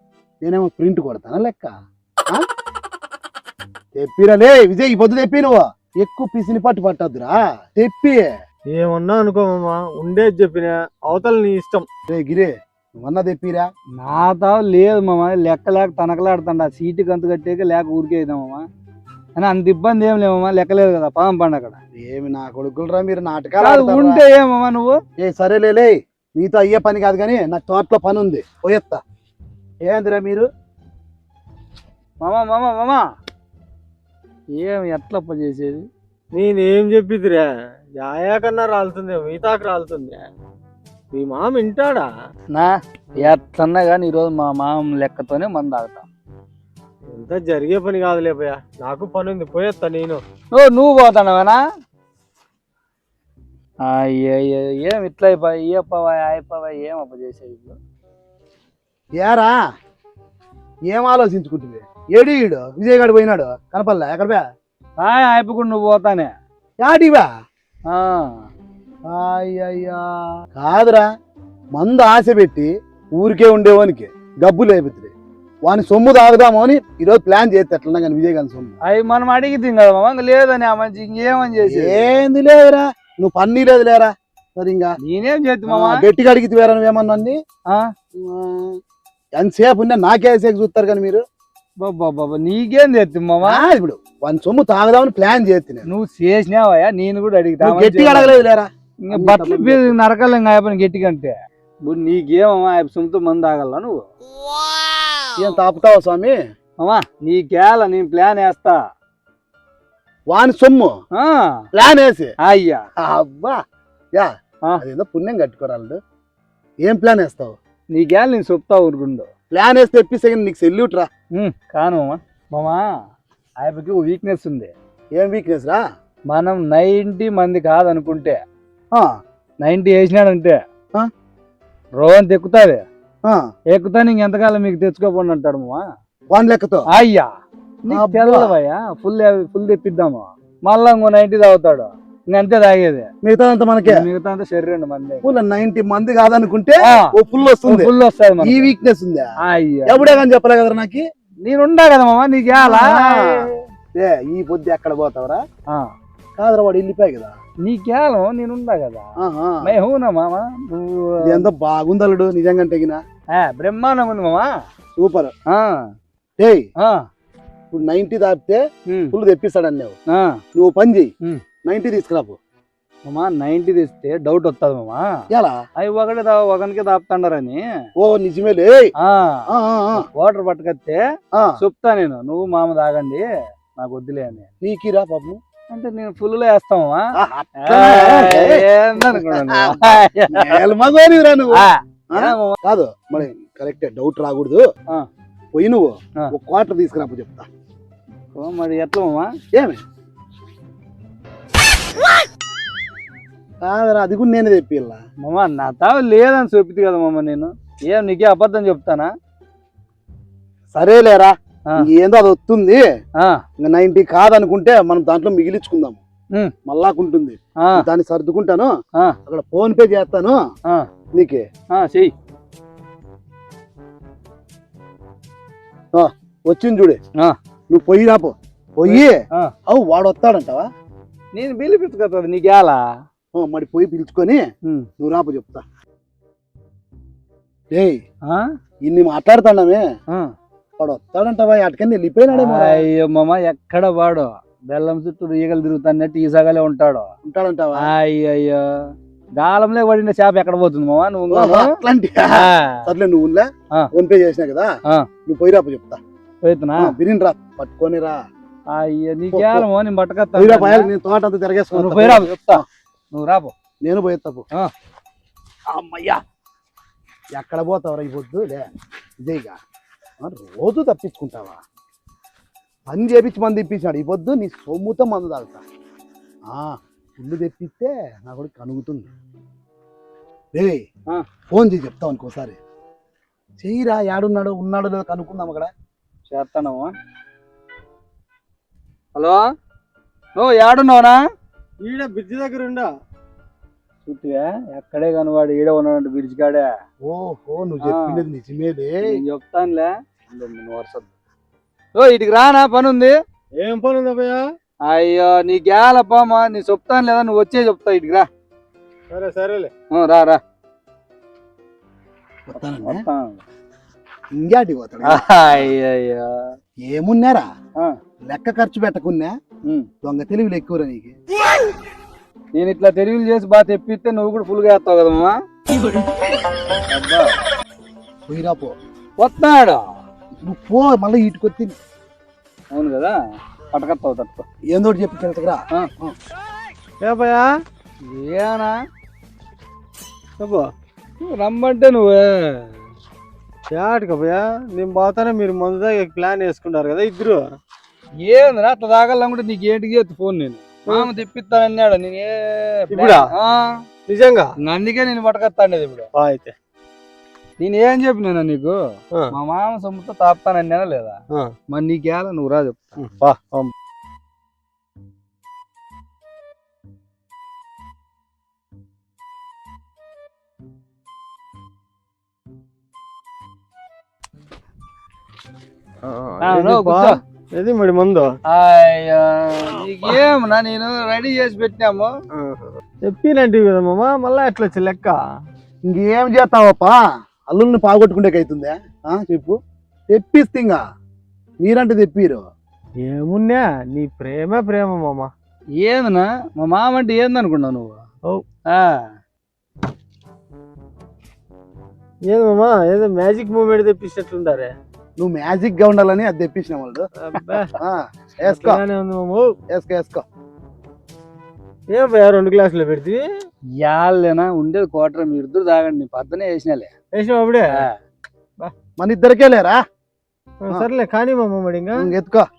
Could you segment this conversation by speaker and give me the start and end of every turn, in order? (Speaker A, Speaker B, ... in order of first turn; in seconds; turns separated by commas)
Speaker A: 0.4-1.7, Speaker A: 4.0-8.3, Speaker B: 8.7-11.9, Speaker A: 12.1-13.7, Speaker C: 14.0-18.6, Speaker C: 19.4-21.8, Speaker A: 22.0-24.2, Speaker C: 23.6-25.0, Speaker A: 25.2-29.0, Speaker A: 29.9-30.5, Speaker C: 32.2-33.0, Speaker C: 34.6-35.9, Speaker B: 36.3-40.2, Speaker B: 41.1-42.1, Speaker C: 42.5-46.1, Speaker B: 47.1-50.2, Speaker C: 50.5-51.6, Speaker C: 53.8-57.8, Speaker A: 59.2-59.6, Speaker A: 60.9-64.4, Speaker C: 65.0-66.3, Speaker A: 66.8-67.3, Speaker C: 67.9-68.5, Speaker A: 69.1-71.1, Speaker A: 71.8-75.1, Speaker A: 75.7-78.7, Speaker C: 78.9-82.1, Speaker A: 81.7-84.9, Speaker C: 85.0-86.1, Speaker A: 85.7-87.4, Speaker A: 88.2-88.8, Speaker A: 89.4-91.2, Speaker C: 91.8-93.6, Speaker A: 93.4-95.9, Speaker C: 95.9-98.4, Speaker A: 97.6-100.0, Speaker C: 99.0-101.3, Speaker C: 101.8-104.0, Speaker A: 105.4-106.4, Speaker C: 106.8-108.8, Speaker A: 110.3-110.9, Speaker C: 111.2-111.6, Speaker A: 111.7-112.3, Speaker C: 112.4-112.8, Speaker A: 113.0-113.6, Speaker A: 114.2-116.0, Speaker A: 116.8-117.5, Speaker C: 117.9-119.3, Speaker A: 119.5-121.1, Speaker C: 121.4-122.9, Speaker C: 123.6-124.7, Speaker A: 125.2-125.8, Speaker C: 126.3-128.4, Speaker C: 129.6-130.6, Speaker C: 132.0-132.8, Speaker C: 133.7-135.8, Speaker A: 136.3-136.8, Speaker C: 136.9-137.3, Speaker C: 137.9-143.1, Speaker A: 137.9-138.6, Speaker A: 143.2-144.1, Speaker C: 143.9-145.3, Speaker A: 145.2-149.3, Speaker C: 146.8-147.1, Speaker C: 147.7-148.7, Speaker C: 149.4-150.2, Speaker A: 149.9-151.0, Speaker C: 151.4-153.3, Speaker A: 152.6-155.4, Speaker A: 156.4-157.4, Speaker C: 157.7-159.1, Speaker A: 159.2-159.7, Speaker C: 159.6-161.5, Speaker A: 161.2-163.0, Speaker C: 163.3-164.5, Speaker A: 165.0-165.3, Speaker C: 165.5-165.9, Speaker A: 166.4-166.6, Speaker A: 167.7-168.6, Speaker C: 168.9-169.2, Speaker A: 169.1-169.9, Speaker C: 170.1-170.4, Speaker A: 170.6-171.1, Speaker A: 171.7-172.4, Speaker C: 173.1-175.1, Speaker A: 175.3-175.6, Speaker C: 175.8-177.6, Speaker A: 178.0-178.9, Speaker C: 179.0-179.5, Speaker A: 179.5-180.1, Speaker C: 180.0-181.0, Speaker C: 181.6-183.3, Speaker C: 183.8-184.5, Speaker A: 184.6-185.4, Speaker C: 185.7-187.1, Speaker A: 187.2-194.7, Speaker C: 187.6-190.7, Speaker C: 191.6-192.6, Speaker A: 195.6-197.5, Speaker C: 198.3-199.3, Speaker A: 199.5-199.8, Speaker A: 203.6-205.0, Speaker C: 205.2-209.1, Speaker A: 210.7-212.8, Speaker A: 213.6-216.0, Speaker A: 216.7-218.7, Speaker C: 217.6-217.9, Speaker A: 219.3-220.4, Speaker A: 221.2-221.5, Speaker C: 221.7-222.1, Speaker A: 225.9-227.0, Speaker A: 227.7-230.7, Speaker C: 228.9-229.5, Speaker C: 231.3-232.9, Speaker A: 233.3-234.4, Speaker A: 235.0-235.6, Speaker A: 237.7-238.0, Speaker A: 238.8-239.8, Speaker A: 240.8-242.9, Speaker C: 242.3-247.1, Speaker A: 247.2-247.9, Speaker C: 247.8-251.8, Speaker A: 251.3-254.7, Speaker C: 252.3-252.9, Speaker A: 255.3-256.0, Speaker C: 256.4-256.9, Speaker A: 256.8-258.2, Speaker C: 258.7-260.9, Speaker A: 259.3-259.7, Speaker A: 260.4-262.6, Speaker C: 261.7-263.5, Speaker A: 263.8-264.4, Speaker A: 265.7-266.2, Speaker A: 267.4-268.7, Speaker A: 269.2-269.6, Speaker A: 270.2-271.6, Speaker A: 272.9-275.6, Speaker A: 276.5-279.1, Speaker A: 280.6-280.9, Speaker A: 281.5-282.6, Speaker A: 283.6-285.7, Speaker C: 286.3-286.9, Speaker C: 289.1-289.4, Speaker C: 290.4-291.2, Speaker B: 291.8-292.9, Speaker C: 294.1-296.7, Speaker A: 297.1-299.2, Speaker C: 297.8-298.2, Speaker C: 299.1-301.1, Speaker C: 302.0-303.1, Speaker B: 303.6-304.4, Speaker C: 304.9-308.3, Speaker B: 309.1-309.7, Speaker C: 309.9-310.4, Speaker A: 312.5-313.0, Speaker C: 312.7-313.4, Speaker A: 314.4-315.3, Speaker C: 315.0-316.6, Speaker A: 316.8-317.5, Speaker A: 318.2-319.3, Speaker A: 320.0-321.2, Speaker C: 322.6-325.4, Speaker C: 326.9-327.4, Speaker A: 328.3-328.7, Speaker C: 329.2-329.8, Speaker A: 330.5-331.8, Speaker C: 332.7-333.2, Speaker C: 333.7-334.4, Speaker A: 334.7-336.2, Speaker B: 337.0-337.5, Speaker C: 338.0-338.8, Speaker B: 340.4-340.7, Speaker C: 341.2-342.7, Speaker B: 343.7-347.4, Speaker C: 348.2-353.8, Speaker B: 352.9-353.3, Speaker B: 354.1-354.5, Speaker C: 354.6-356.1, Speaker B: 356.1-356.5, Speaker C: 357.6-358.8, Speaker C: 359.3-361.2, Speaker C: 361.7-363.0, Speaker B: 363.0-363.7, Speaker B: 376.1-378.3, Speaker C: 376.4-377.2, Speaker C: 378.5-382.1, Speaker B: 382.4-385.2, Speaker A: 385.9-387.0, Speaker A: 387.5-389.6, Speaker A: 390.1-390.8, Speaker A: 391.6-392.4, Speaker B: 393.1-395.3, Speaker C: 395.8-398.0, Speaker C: 398.7-399.1, Speaker B: 402.3-404.7, Speaker A: 405.2-407.1, Speaker B: 407.2-407.7, Speaker A: 407.8-408.8, Speaker B: 408.4-409.5, Speaker A: 409.7-410.2, Speaker B: 411.9-413.2, Speaker C: 413.8-416.9, Speaker B: 417.1-417.9, Speaker A: 419.0-419.8, Speaker B: 420.6-422.1, Speaker A: 422.0-422.5